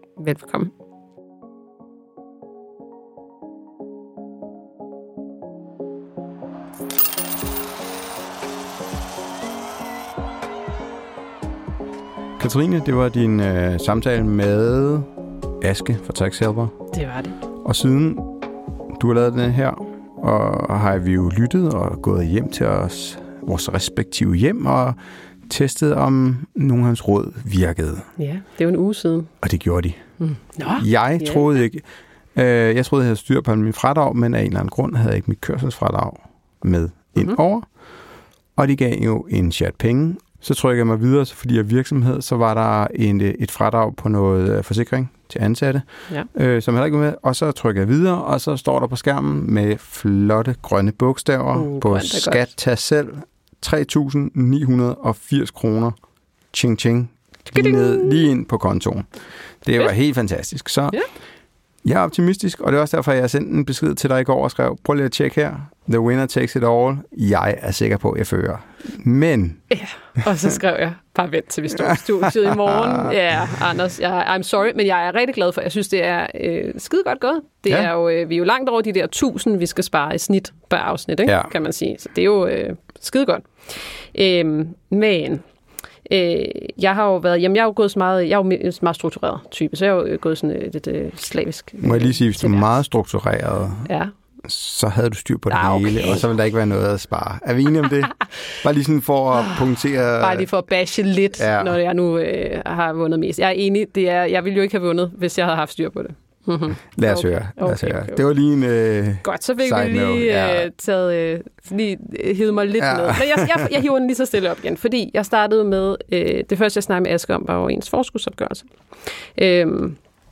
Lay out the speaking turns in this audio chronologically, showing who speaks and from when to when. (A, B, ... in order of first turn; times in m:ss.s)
0:00.2-0:00.7 A
0:12.4-0:15.1 B
0:15.6-0:16.7 B
0:16.9-0:17.4 A
0:17.6-0:18.3 B
0:19.0-0:28.1 B
0:28.2-0:29.3 A
0:29.4-0:30.1 B
0:30.2-0:31.4 A
0:30.8-0:37.7 B
0:38.6-0:56.0 B
0:51.6-0:52.5 A
0:56.5-0:59.1 B
0:57.5-0:58.2 A
0:59.6-1:01.0 B
1:01.8-1:09.6 B
1:09.7-1:25.4 A
1:11.8-1:13.2 B
1:26.0-1:32.7 A
1:31.8-1:33.9 B
1:33.9-1:34.1 A
1:34.4-1:40.5 B
1:35.5-1:36.2 A
1:40.2-1:48.2 A
1:41.4-1:41.8 B
1:47.0-1:50.7 B
1:49.2-2:00.0 A
1:52.8-1:53.7 B